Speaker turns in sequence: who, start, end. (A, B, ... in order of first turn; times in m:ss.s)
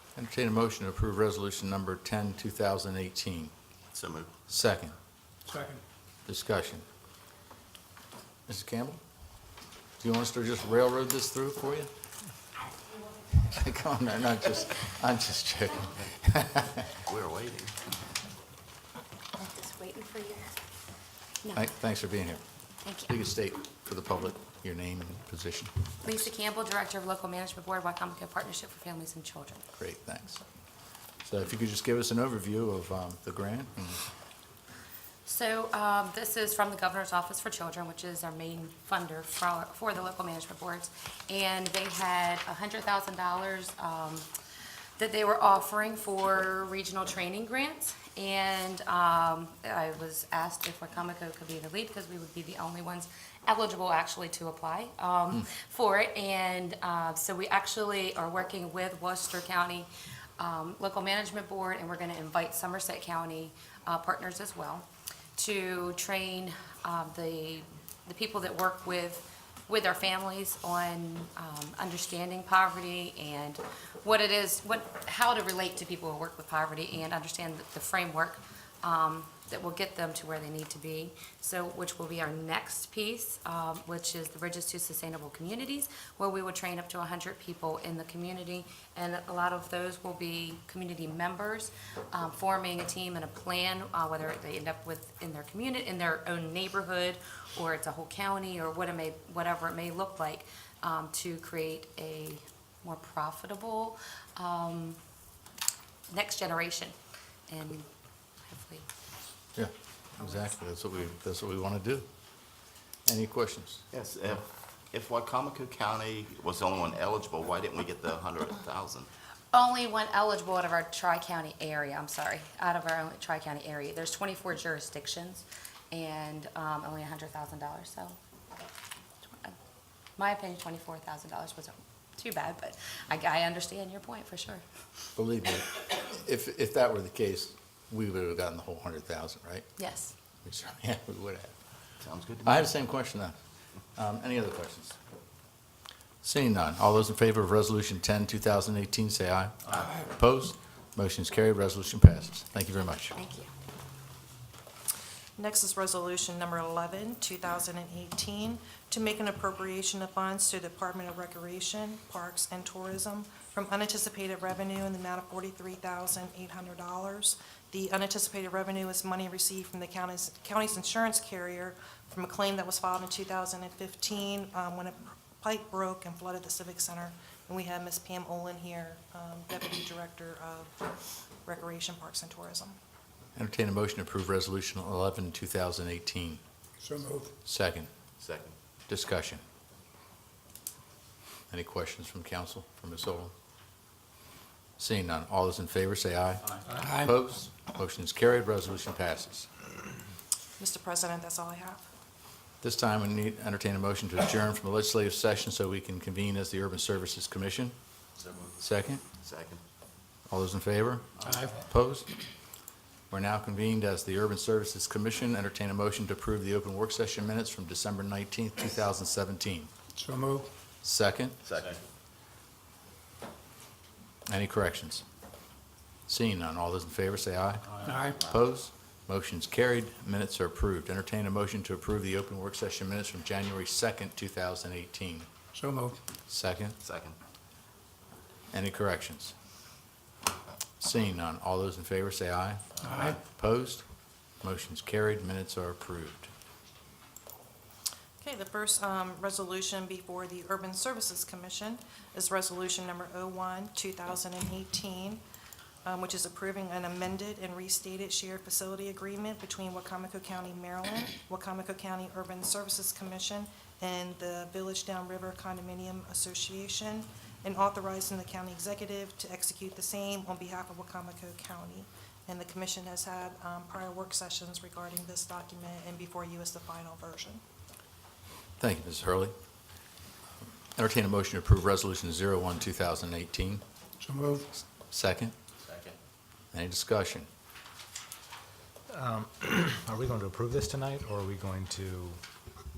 0:00.2-0:03.5 A
0:03.9-0:04.3 B
0:04.5-0:04.9 A
0:05.4-0:05.8 C
0:06.2-0:06.8 A
0:08.5-0:09.0 A
0:10.0-0:11.9 A
0:13.3-0:16.9 A
0:17.0-0:17.8 B
0:19.4-0:20.6 D
0:21.5-0:22.4 A
0:22.8-0:23.2 D
0:23.1-0:25.7 A
0:26.0-0:29.6 D
0:29.8-0:30.4 A
0:31.2-0:34.0 A
0:35.2-0:44.3 D
0:45.0-1:04.8 D
1:05.4-1:45.0 D
1:46.1-1:46.9 D
1:47.5-1:47.9 D
1:48.4-1:48.9 D
1:49.6-1:52.0 A
1:53.0-1:53.8 A
1:53.9-1:59.1 B
1:59.5-2:08.2 D
2:10.2-2:14.6 D
2:15.2-2:19.7 A
2:19.8-2:20.1 D
2:20.4-2:21.5 A
2:22.0-2:22.6 B
2:22.4-2:23.4 A
2:24.0-2:25.0 A
2:26.2-2:33.1 A
2:33.2-2:33.5 D
2:35.4-3:02.8 E
3:03.4-3:06.4 A
3:06.8-3:07.3 C
3:07.4-3:07.9 A
3:08.2-3:08.5 B
3:08.9-3:09.4 A
3:11.5-3:13.3 A
3:14.8-3:19.5 A
3:16.7-3:17.1 C
3:20.6-3:21.8 E
3:22.6-3:27.7 A
3:28.6-3:29.0 A
3:29.2-3:29.6 B
3:30.3-3:32.1 A
3:31.2-3:31.6 C
3:33.1-3:39.7 A
3:40.0-3:40.5 C
3:40.8-3:41.4 A
3:41.4-3:41.8 B
3:44.3-3:45.0 A
3:46.1-3:55.3 A
3:47.8-3:48.2 C
3:55.5-3:56.0 C
3:56.3-3:56.8 A
3:56.8-3:57.1 B
3:58.5-3:59.3 A
4:00.8-4:03.8 A
4:02.8-4:03.2 C
4:04.4-4:06.3 A
4:08.2-4:15.2 E
4:15.8-4:37.4 E
4:38.6-4:39.3 A
4:40.8-4:43.6 A
4:44.0-4:44.4 C
4:44.9-4:45.3 A
4:46.5-4:47.3 A
4:48.9-4:52.2 F